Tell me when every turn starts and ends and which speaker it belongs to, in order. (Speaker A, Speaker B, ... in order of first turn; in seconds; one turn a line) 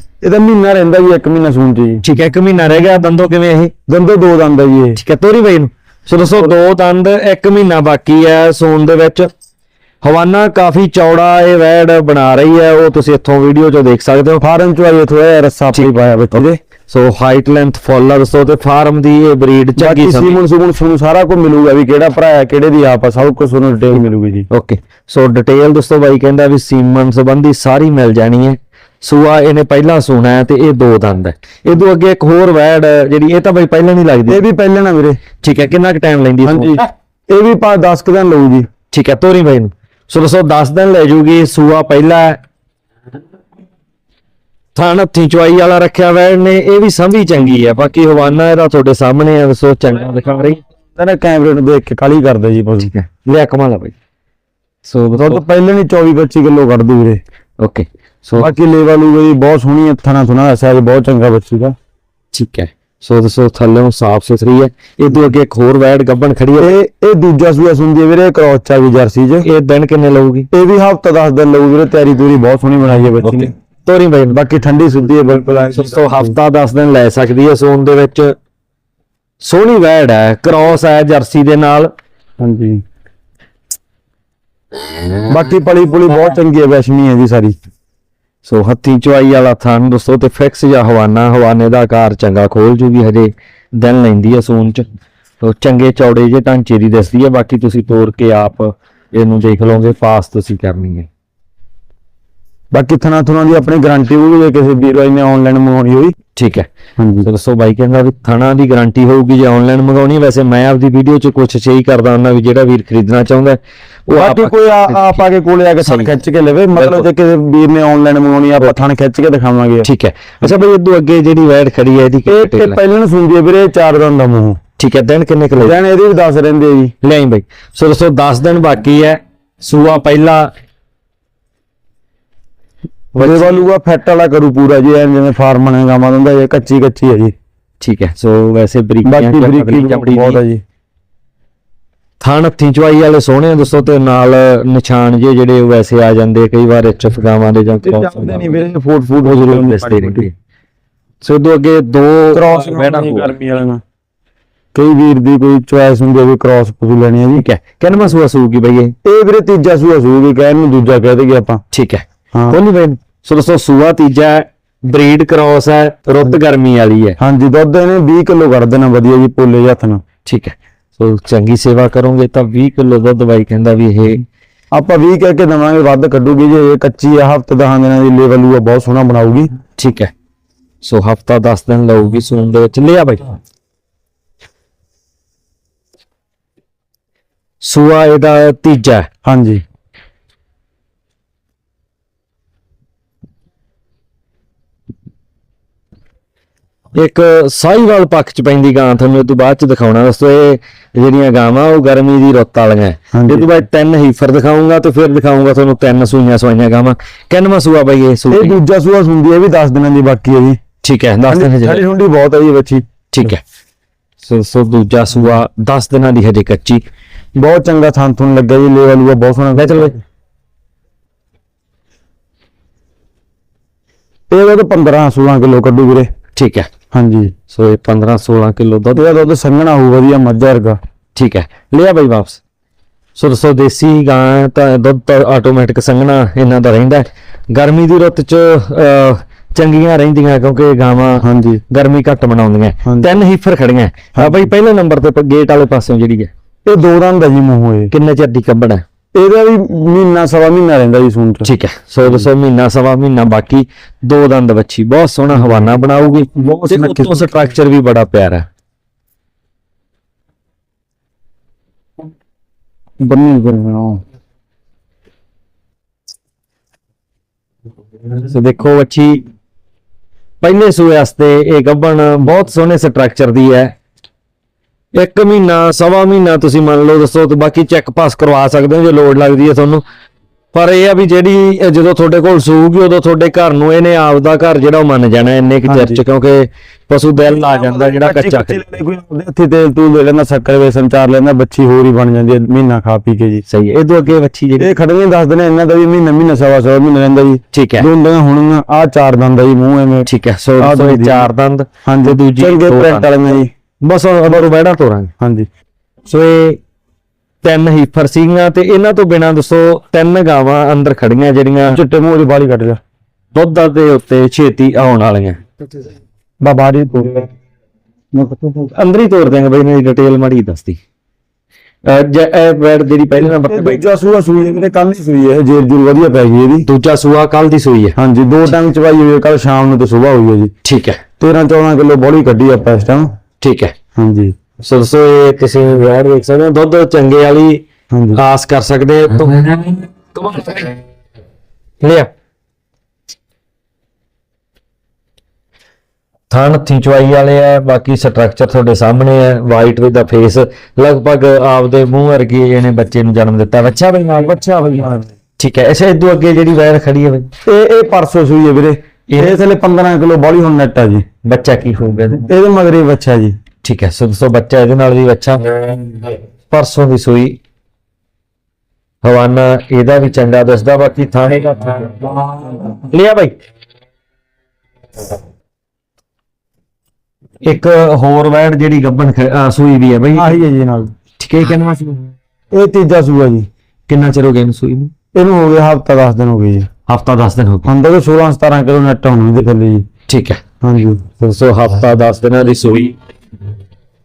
Speaker A: 0.2-2.0
Speaker B: 2.0-3.7
Speaker A: 3.9-5.0
Speaker B: 5.0-9.3
Speaker B: 10.0-14.4
Speaker A: 14.4-16.6
Speaker B: 15.7-20.4
Speaker A: 19.8-24.5
Speaker B: 24.5-34.4
Speaker A: 34.3-35.2
Speaker B: 35.4-36.8
Speaker A: 36.4-38.7
Speaker B: 38.9-42.4
Speaker B: 44.7-50.6
Speaker A: 51.0-52.9
Speaker B: 52.8-53.9
Speaker B: 54.8-55.4
Speaker A: 55.1-57.2
Speaker B: 57.6-58.5
Speaker A: 58.4-61.8
Speaker B: 62.3-66.7
Speaker A: 66.6-69.5
Speaker B: 69.4-70.5
Speaker A: 70.5-73.5
Speaker B: 73.2-74.4
Speaker A: 74.3-76.3
Speaker B: 75.7-78.3
Speaker B: 79.4-81.9
Speaker A: 82.4-82.8
Speaker A: 85.3-87.5
Speaker B: 88.4-94.8
Speaker B: 95.4-101.1
Speaker A: 102.7-106.1
Speaker B: 106.3-106.7
Speaker A: 107.0-107.3
Speaker B: 107.2-115.2
Speaker A: 114.1-119.9
Speaker B: 115.8-116.1
Speaker B: 116.8-117.0
Speaker B: 119.8-122.8
Speaker A: 122.3-124.6
Speaker B: 124.8-125.8
Speaker A: 125.6-126.9
Speaker B: 127.0-130.5
Speaker B: 133.1-133.5
Speaker A: 133.2-137.3
Speaker B: 137.8-140.4
Speaker A: 139.0-140.6
Speaker B: 142.2-148.6
Speaker A: 147.8-150.3
Speaker B: 149.2-150.3
Speaker B: 151.2-153.3
Speaker A: 152.3-153.8
Speaker A: 154.7-157.4
Speaker B: 157.3-158.9
Speaker A: 159.0-161.6
Speaker B: 161.7-167.2
Speaker A: 167.2-170.0
Speaker B: 170.2-174.2
Speaker A: 174.7-179.5
Speaker B: 179.8-180.1
Speaker B: 180.8-183.3
Speaker B: 187.6-189.1
Speaker A: 189.2-189.6
Speaker B: 196.9-208.6
Speaker A: 203.1-203.5
Speaker A: 208.3-210.6
Speaker B: 210.8-211.8
Speaker A: 211.3-212.8
Speaker B: 213.1-213.4
Speaker B: 214.2-216.8
Speaker A: 217.3-220.0
Speaker B: 219.6-219.9
Speaker A: 224.3-226.1
Speaker B: 226.3-226.7
Speaker A: 226.9-227.3
Speaker B: 227.5-229.0
Speaker A: 228.9-230.8
Speaker B: 231.2-232.4
Speaker B: 233.2-246.3
Speaker A: 241.2-241.6
Speaker A: 242.8-243.1
Speaker A: 244.1-244.5
Speaker A: 246.7-247.9
Speaker B: 247.9-248.8
Speaker A: 249.1-251.5
Speaker B: 251.4-258.4
Speaker A: 255.3-255.8
Speaker A: 256.3-257.3
Speaker A: 263.0-264.0
Speaker B: 268.2-269.2
Speaker B: 270.4-273.7
Speaker B: 274.9-279.8
Speaker B: 280.5-288.6
Speaker A: 285.6-286.0
Speaker A: 287.3-293.4
Speaker B: 293.5-294.7
Speaker A: 294.6-300.1
Speaker B: 297.5-297.9
Speaker B: 300.1-303.1
Speaker A: 300.6-301.3
Speaker A: 301.8-303.5
Speaker B: 303.8-305.1
Speaker A: 305.2-305.5
Speaker B: 306.1-306.6
Speaker B: 307.4-311.8
Speaker A: 311.7-312.8
Speaker B: 313.3-315.4
Speaker A: 316.4-317.3
Speaker A: 318.1-318.5
Speaker B: 318.6-320.8
Speaker B: 321.8-323.8
Speaker A: 323.4-326.7
Speaker B: 326.6-327.9
Speaker A: 327.9-330.5
Speaker B: 330.6-331.0
Speaker A: 331.2-333.1
Speaker B: 333.4-333.7
Speaker A: 333.9-334.3
Speaker B: 334.6-337.6
Speaker A: 337.9-338.2
Speaker B: 338.1-340.8
Speaker B: 341.8-342.1
Speaker B: 346.3-354.4
Speaker A: 354.3-355.1
Speaker B: 355.4-357.3
Speaker A: 357.4-361.0
Speaker B: 359.1-359.3
Speaker B: 361.2-362.2
Speaker A: 362.1-363.4
Speaker B: 363.6-365.5
Speaker B: 366.5-367.4
Speaker B: 369.0-373.3
Speaker B: 377.4-380.3
Speaker A: 380.1-380.9
Speaker B: 381.2-382.1
Speaker A: 382.5-383.5
Speaker B: 383.9-384.9
Speaker A: 385.1-386.7
Speaker B: 386.9-387.6
Speaker A: 387.6-389.9
Speaker B: 390.1-390.4
Speaker A: 390.6-391.0
Speaker B: 391.2-392.9